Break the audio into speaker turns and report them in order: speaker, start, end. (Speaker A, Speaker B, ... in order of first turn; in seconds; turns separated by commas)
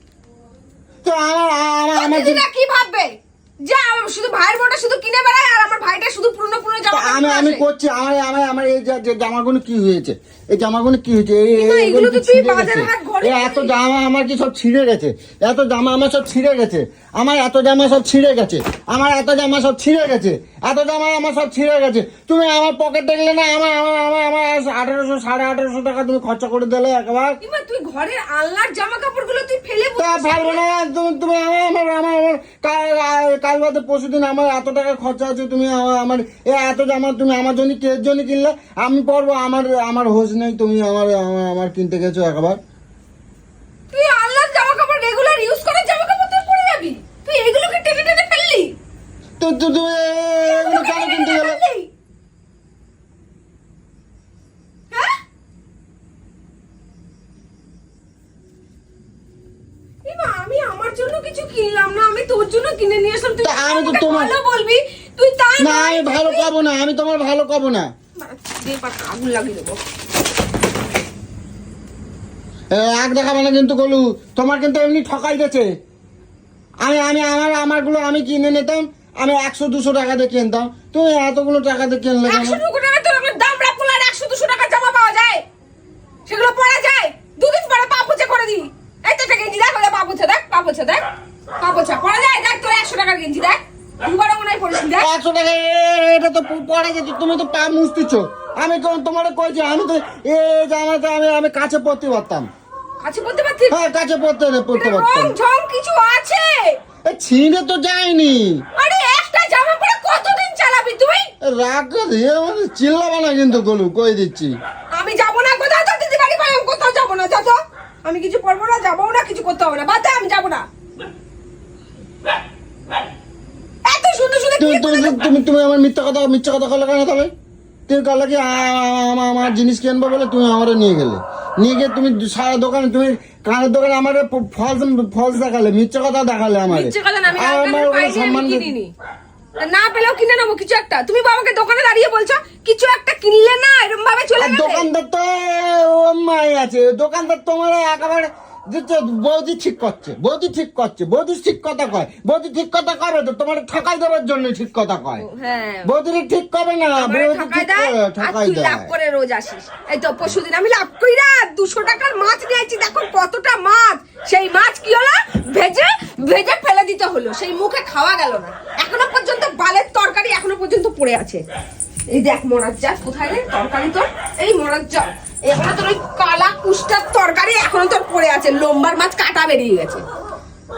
Speaker A: 1.0-2.4, Speaker B: 1.9-7.7, Speaker A: 6.9-27.4, Speaker B: 11.6-13.8, Speaker B: 27.4-30.6, Speaker A: 30.0-42.6, Speaker B: 43.9-48.7, Speaker A: 49.4-51.6, Speaker B: 50.5-51.9, Speaker B: 54.9-55.2, Speaker B: 60.0-66.5, Speaker A: 63.4-64.3, Speaker A: 65.6-67.9, Speaker B: 68.2-69.8, Speaker A: 72.7-75.7, Speaker A: 76.8-82.6, Speaker B: 82.2-85.4, Speaker B: 86.3-91.0, Speaker B: 91.6-95.1, Speaker A: 95.0-102.5, Speaker B: 103.0-103.8, Speaker A: 103.7-105.3, Speaker B: 104.7-106.8, Speaker A: 107.1-108.6, Speaker B: 108.8-111.3, Speaker A: 111.5-114.5, Speaker B: 114.9-120.6, Speaker B: 123.8-125.3, Speaker A: 124.6-127.3, Speaker A: 127.9-138.7, Speaker B: 136.7-138.9, Speaker B: 139.6-144.9, Speaker A: 144.4-155.2, Speaker B: 155.2-155.9, Speaker A: 155.8-158.9, Speaker B: 157.0-171.4, Speaker B: 172.1-180.0